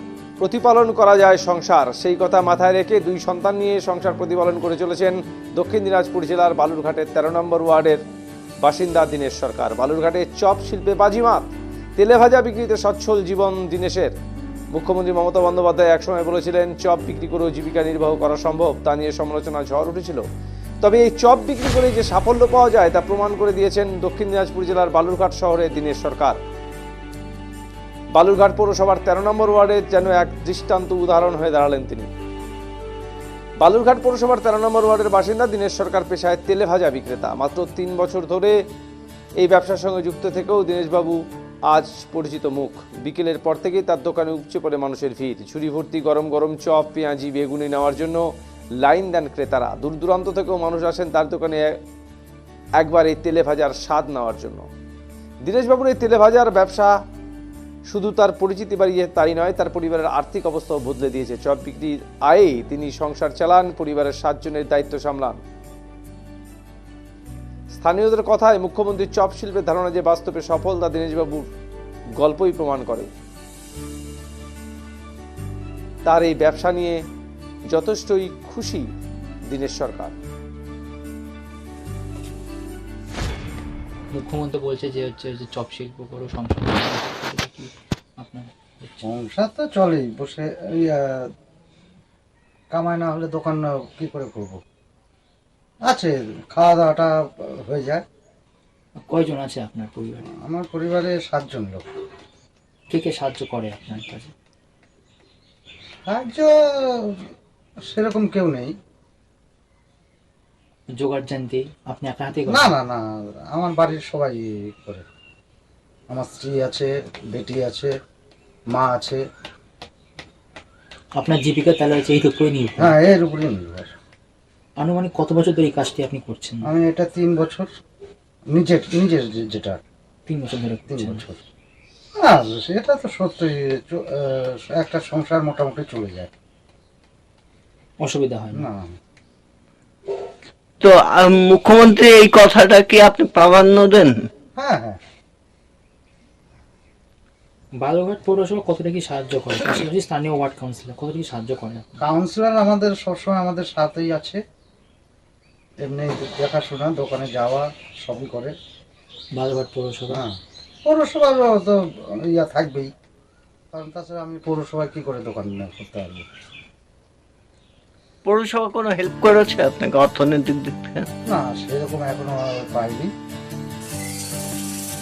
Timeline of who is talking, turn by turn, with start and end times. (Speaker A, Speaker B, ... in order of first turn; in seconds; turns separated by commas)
Speaker A: 0.4-8.0, Speaker A: 8.6-14.1, Speaker A: 14.7-20.2, Speaker A: 20.8-26.4, Speaker A: 28.1-32.1, Speaker A: 33.6-38.6, Speaker A: 39.4-51.8, Speaker A: 52.8-54.7, Speaker A: 55.4-57.0, Speaker A: 57.9-65.4, Speaker A: 67.7-71.5, Speaker A: 72.2-73.1, Speaker A: 76.1-77.0, Speaker A: 77.7-78.9, Speaker A: 79.5-80.1, Speaker B: 84.1-89.0, Speaker C: 89.0-91.3, Speaker C: 92.7-94.6, Speaker C: 95.9-98.0, Speaker B: 99.1-100.3, Speaker C: 100.4-101.9, Speaker B: 102.9-104.3, Speaker C: 106.1-107.2, Speaker C: 107.9-108.7, Speaker B: 111.0-112.7, Speaker C: 112.5-115.0, Speaker C: 116.1-117.9, Speaker C: 118.7-119.2, Speaker B: 121.2-123.0, Speaker C: 122.8-123.9, Speaker B: 124.8-126.7, Speaker C: 126.7-127.7, Speaker C: 128.5-129.8, Speaker B: 130.3-131.2, Speaker C: 130.9-131.4, Speaker C: 132.2-136.3, Speaker B: 138.0-138.7, Speaker C: 138.5-138.9, Speaker D: 140.8-144.3, Speaker C: 144.6-145.0, Speaker B: 147.8-151.9, Speaker C: 152.0-154.4, Speaker C: 155.8-158.5, Speaker B: 159.3-160.2, Speaker C: 160.1-162.9, Speaker C: 163.7-166.3, Speaker D: 168.3-171.1, Speaker C: 171.3-173.1